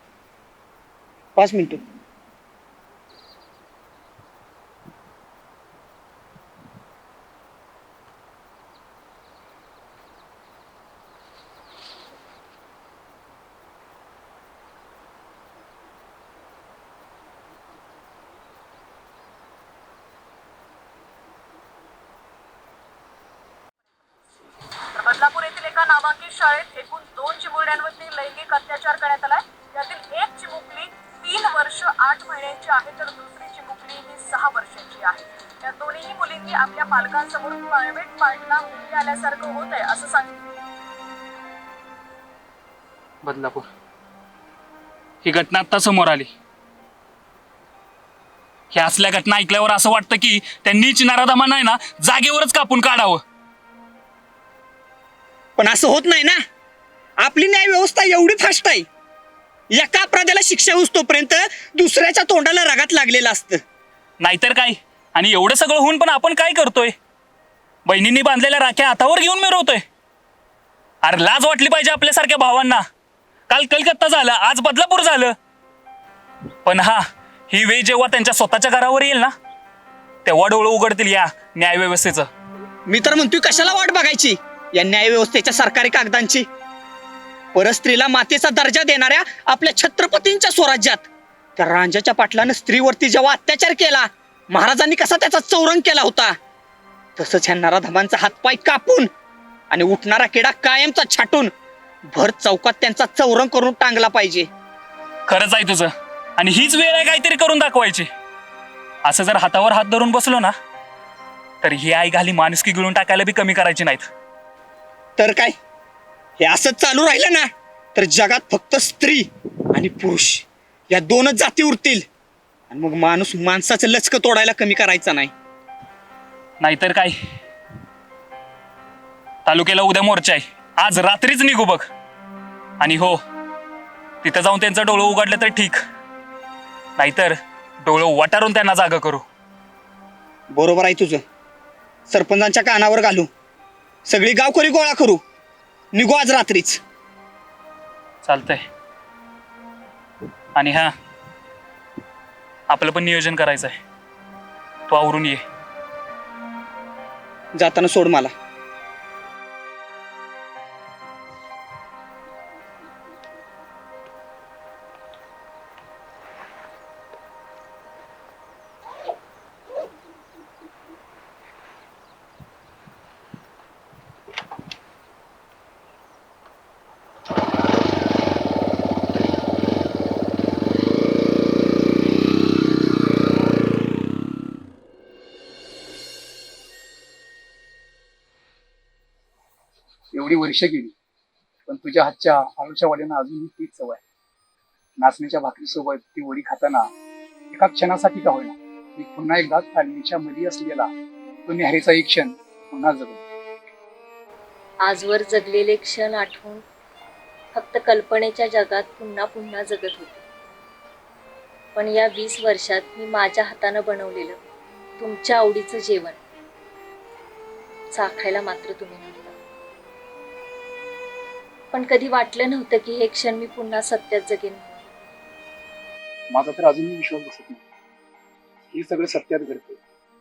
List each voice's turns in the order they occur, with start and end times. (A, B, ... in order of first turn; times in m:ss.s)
0:01.4-0:01.8 A
0:24.9-0:40.3 B
0:43.2-0:43.7 C
0:45.2-0:46.3 C
0:48.7-0:53.2 C
0:55.6-0:56.4 A
0:57.2-0:58.8 A
0:59.7-1:03.6 A
1:04.2-1:06.9 C
1:07.8-1:09.8 C
1:11.0-1:12.8 C
1:13.5-1:15.3 C
1:16.6-1:19.3 C
1:20.2-1:22.3 C
1:22.9-1:26.4 A
1:27.5-1:31.0 A
1:31.6-1:36.4 A
1:37.2-1:39.1 A
1:39.7-1:41.5 A
1:42.1-1:44.5 A
1:45.3-1:48.1 C
1:49.0-1:50.5 C
1:51.6-1:54.1 C
1:55.2-1:55.5 A
1:56.4-2:02.0 A
2:02.7-2:05.3 A
2:06.6-2:07.2 C
2:09.4-2:11.9 C
2:12.8-2:13.2 C
2:14.2-2:15.8 C
2:17.0-2:19.2 C
2:20.5-2:21.2 A
2:22.1-2:23.3 A
2:24.1-2:25.2 A
2:25.9-2:26.8 A
2:28.2-2:28.6 C
2:30.5-2:30.9 C
2:32.7-2:33.8 C
2:34.9-2:35.4 C
2:37.5-2:38.3 A
3:10.1-3:10.9 D
3:11.7-3:14.0 D
3:15.0-3:16.9 D
3:17.5-3:20.9 D
3:21.5-3:23.2 D
3:24.8-3:26.6 E
3:27.5-3:30.2 E
3:31.8-3:34.4 E
3:35.0-3:36.2 E
3:37.9-3:39.4 E
3:41.7-3:44.9 E
3:46.3-3:47.6 D
3:48.7-3:49.8 D